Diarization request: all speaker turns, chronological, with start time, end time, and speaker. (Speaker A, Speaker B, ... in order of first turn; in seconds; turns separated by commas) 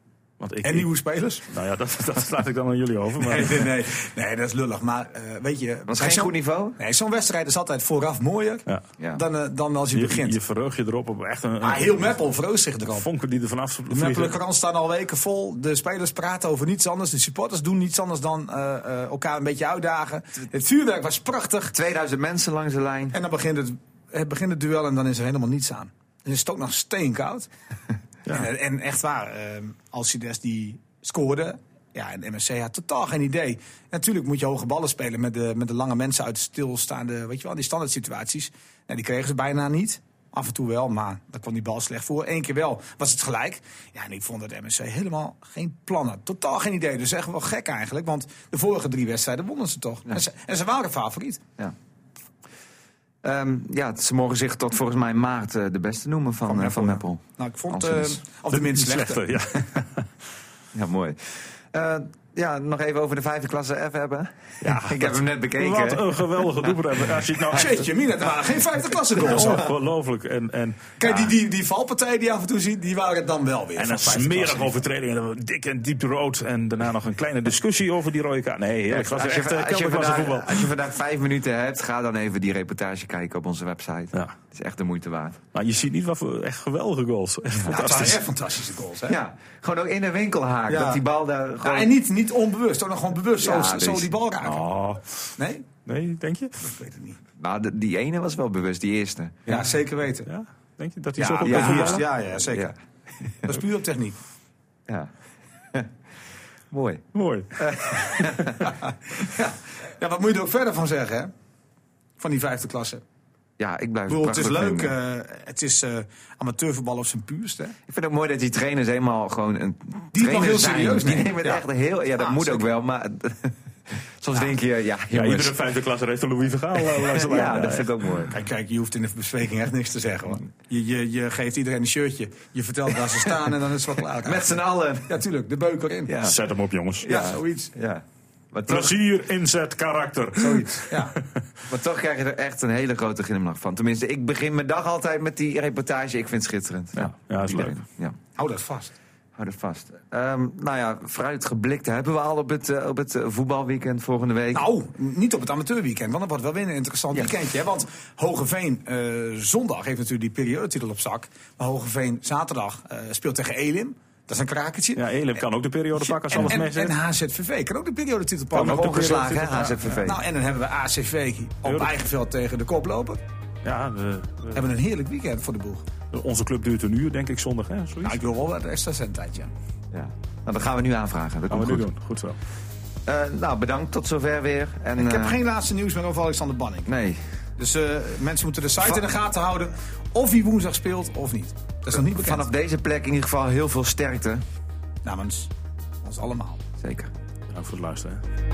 Speaker A: 0.4-0.9, Speaker B: 0.6-1.4, Speaker A: 1.5-3.7, Speaker B: 3.2-10.4, Speaker C: 5.9-6.8, Speaker A: 9.9-12.2, Speaker B: 11.6-13.1, Speaker A: 12.9-14.4, Speaker B: 13.9-21.8, Speaker C: 21.7-23.2, Speaker B: 23.1-27.5, Speaker B: 28.3-51.4, Speaker C: 53.2-58.2, Speaker B: 56.5-59.2, Speaker A: 58.5-60.1, Speaker C: 60.7-66.8, Speaker A: 64.6-67.9, Speaker C: 67.4-67.6, Speaker B: 67.5-69.7, Speaker A: 69.2-71.3, Speaker B: 71.0-74.8, Speaker A: 73.8-80.7, Speaker C: 78.9-85.4, Speaker A: 85.5-88.2, Speaker B: 87.7-89.2, Speaker C: 89.1-91.9, Speaker B: 90.7-91.0, Speaker B: 91.6-94.6, Speaker C: 93.4-94.1, Speaker A: 94.4-95.3, Speaker B: 95.4-95.7, Speaker A: 95.9-96.6, Speaker B: 96.6-97.2, Speaker C: 97.4-99.5, Speaker B: 99.5-100.3, Speaker A: 100.3-102.0, Speaker B: 101.2-102.7, Speaker C: 101.4-102.8, Speaker B: 103.4-104.2, Speaker C: 106.7-107.0, Speaker A: 107.1-108.3, Speaker C: 107.7-108.6, Speaker B: 108.6-111.3, Speaker B: 112.2-113.0, Speaker C: 113.6-115.0, Speaker B: 114.1-117.8, Speaker C: 117.9-125.6, Speaker B: 120.1-121.7, Speaker B: 122.2-122.7, Speaker A: 125.1-127.9, Speaker C: 127.0-128.3, Speaker B: 128.3-136.1, Speaker C: 134.2-135.2, Speaker C: 136.1-136.4, Speaker A: 136.2-137.1, Speaker B: 137.0-137.7, Speaker C: 137.1-138.9, Speaker A: 138.7-141.2, Speaker B: 140.4-141.1, Speaker C: 141.7-148.2, Speaker A: 147.0-147.8, Speaker B: 148.4-148.9, Speaker C: 149.4-154.6, Speaker B: 154.5-165.0, Speaker A: 165.0-167.0, Speaker B: 166.0-169.0, Speaker A: 168.5-170.1, Speaker C: 168.6-170.2, Speaker B: 170.0-173.2, Speaker A: 171.7-171.9, Speaker A: 173.6-174.7, Speaker B: 174.6-175.8, Speaker A: 176.1-178.2, Speaker B: 178.0-179.5, Speaker C: 179.9-181.8, Speaker A: 181.5-182.4, Speaker C: 183.1-185.4, Speaker B: 185.0-186.9, Speaker C: 186.9-187.2, Speaker B: 187.6-192.5, Speaker C: 191.9-194.4, Speaker B: 195.0-195.5, Speaker B: 196.0-196.6, Speaker C: 196.8-197.1, Speaker A: 197.5-198.2